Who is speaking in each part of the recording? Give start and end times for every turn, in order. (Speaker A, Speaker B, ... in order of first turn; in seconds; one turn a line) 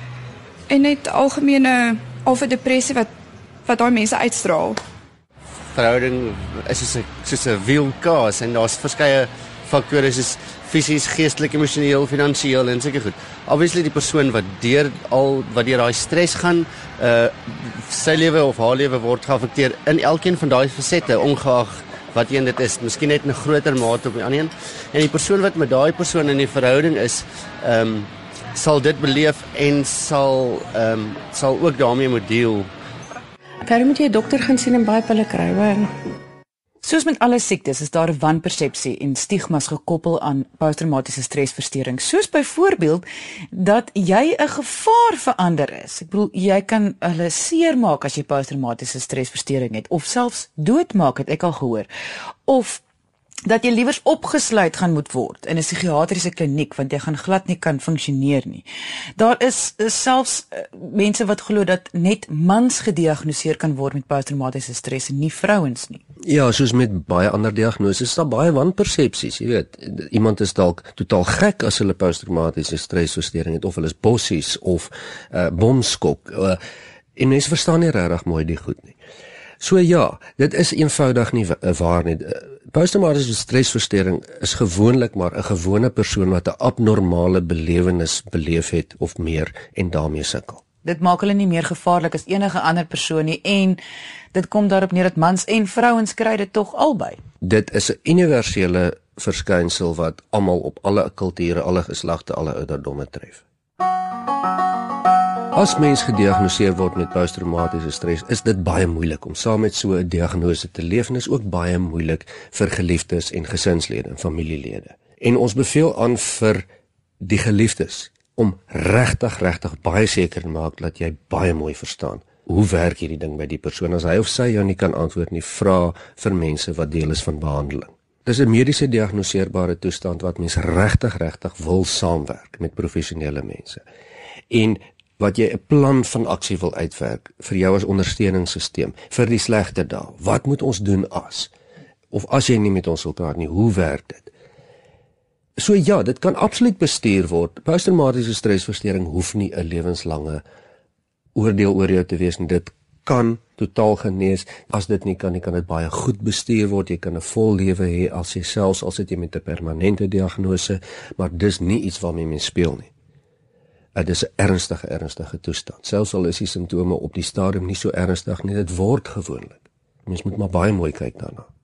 Speaker A: 0.7-3.1
Speaker A: 3.6-4.8
Speaker B: 5.7-32.7
Speaker C: 33.6-35.9
Speaker D: 36.8-51.9
Speaker D: 52.5-52.8
Speaker D: 53.5-58.6
Speaker D: 59.2-66.0
Speaker E: 66.2-76.6
Speaker E: 77.2-79.0
Speaker E: 79.6-90.6
Speaker D: 90.8-93.8
Speaker D: 94.3-97.2
Speaker E: 97.4-103.4
Speaker E: 105.5-116.7
Speaker E: 117.2-133.8
Speaker E: 134.5-141.5
Speaker E: 142.1-144.3
Speaker E: 145.6-150.4
Speaker E: 151.3-162.9
Speaker E: 163.9-171.5